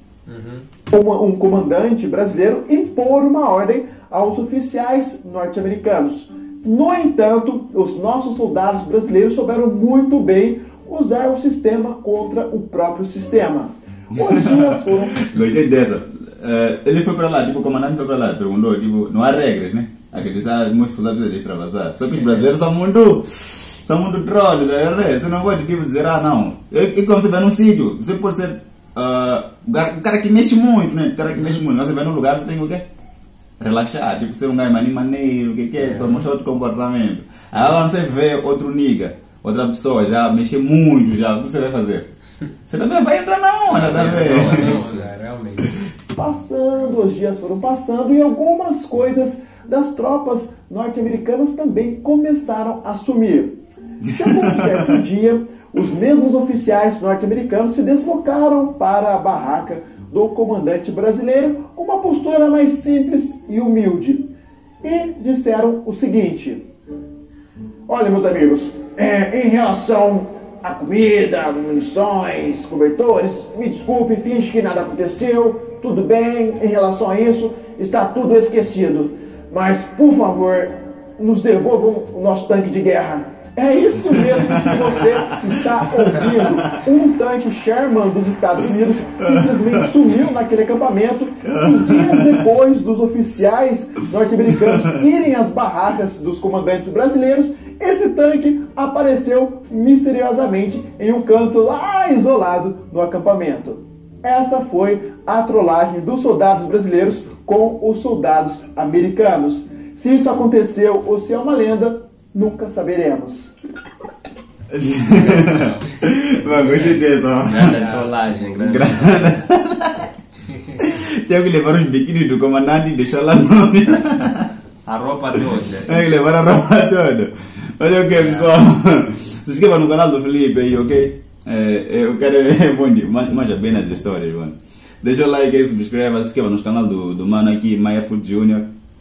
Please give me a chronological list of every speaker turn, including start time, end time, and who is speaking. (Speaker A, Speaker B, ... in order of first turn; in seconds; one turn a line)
Speaker A: 0.2-0.7
Speaker B: 0.9-15.2
Speaker C: 14.2-32.8
Speaker A: 22.2-22.4
Speaker C: 33.6-42.1
Speaker D: 35.8-36.2
Speaker C: 42.6-44.8
Speaker D: 43.7-45.1
Speaker A: 43.9-45.8
Speaker B: 46.1-53.5
Speaker C: 54.0-55.0
Speaker B: 54.0-64.3
Speaker B: 64.8-66.6
Speaker B: 67.9-113.5
Speaker C: 84.1-85.3
Speaker C: 85.9-86.8
Speaker C: 89.2-89.9
Speaker C: 91.5-92.4
Speaker C: 94.5-95.0
Speaker C: 114.7-117.8
Speaker A: 115.1-118.2
Speaker D: 116.9-119.4
Speaker C: 118.6-120.1
Speaker C: 120.7-124.5
Speaker D: 124.9-126.1
Speaker C: 125.8-138.7
Speaker D: 128.2-128.5